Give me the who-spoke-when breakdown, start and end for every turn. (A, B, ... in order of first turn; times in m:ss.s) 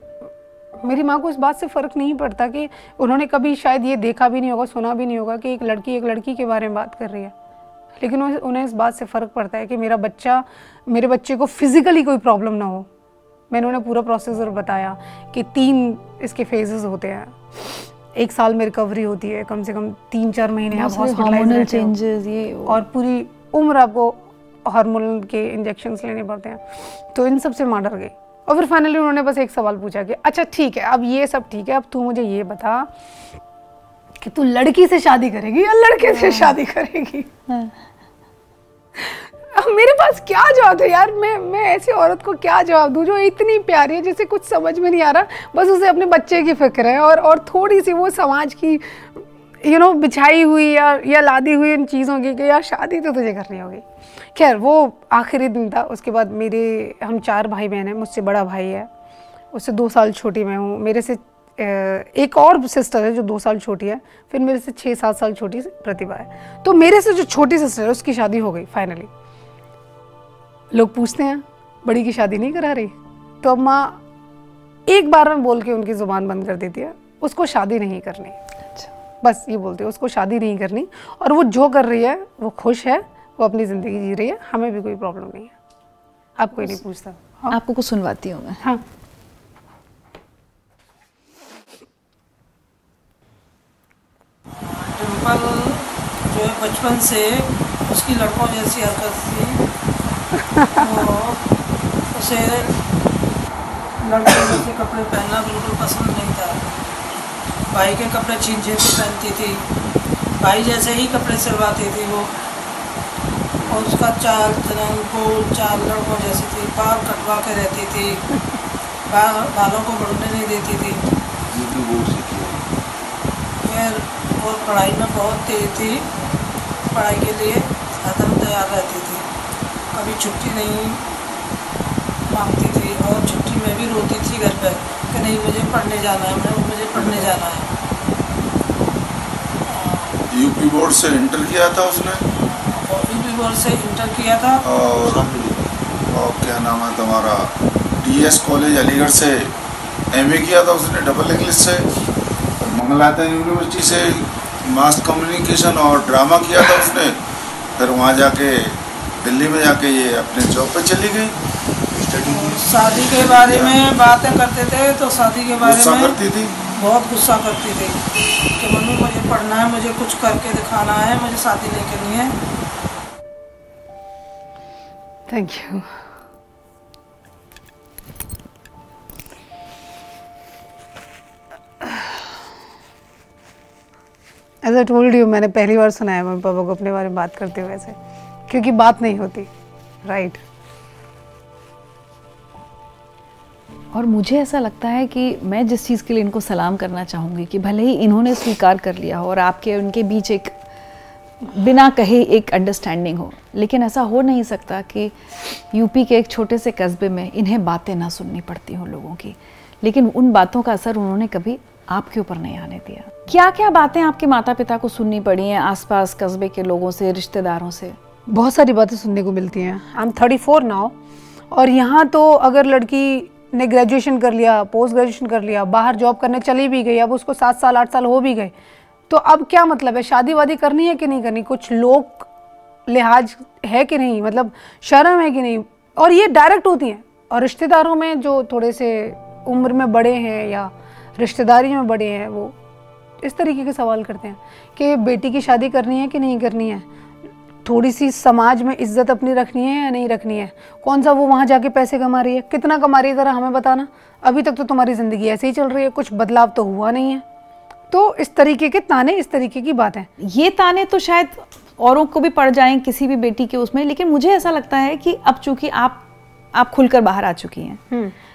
0:00.8-0:07.3 A
0:08.0-0:12.9 A
0:13.5-0:21.9 A
0:20.7-0:22.8 B
0:22.7-0:32.9 A
0:34.2-0:37.3 A
0:36.1-0:36.6 B
0:37.5-0:37.8 B
0:39.0-0:58.9 A
0:59.5-1:09.1 A
1:10.7-1:14.0 A
1:14.9-1:18.4 A
1:19.2-1:25.5 A
1:26.4-1:27.6 A
1:27.5-1:28.6 B
1:34.6-1:39.6 C
1:40.7-1:41.4 C
1:42.1-1:42.8 C
1:44.0-1:46.7 C
1:47.7-1:49.6 C
1:50.4-1:52.3 C
1:53.7-1:58.3 C
1:59.1-2:01.0 C
2:01.6-2:02.6 D
2:03.6-2:06.1 C
2:06.9-2:09.2 C
2:09.9-2:11.0 C
2:12.3-2:17.7 C
2:19.7-2:20.2 C
2:20.3-2:22.2 D
2:22.4-2:25.3 C
2:24.6-2:29.5 D
2:30.1-2:31.9 D
2:32.6-2:37.2 D
2:37.8-2:41.3 D
2:41.9-2:43.9 D
2:42.2-2:46.2 C
2:45.6-2:46.6 D
2:46.7-2:48.0 C
2:48.6-2:52.3 C
2:55.3-2:56.0 A
3:01.8-3:02.1 A
3:04.6-3:08.0 A
3:08.5-3:09.5 A
3:10.0-3:10.4 A
3:13.9-3:20.6 B
3:21.4-3:25.1 B
3:25.7-3:38.0 B
3:38.3-3:41.0 A
3:41.5-3:48.5 A
3:49.1-3:52.3 A
3:52.9-4:02.5 A
4:03.2-4:06.9 A
4:07.6-4:17.2 A
4:17.9-4:20.1 A
4:20.2-4:26.0 B
4:26.5-4:27.8 B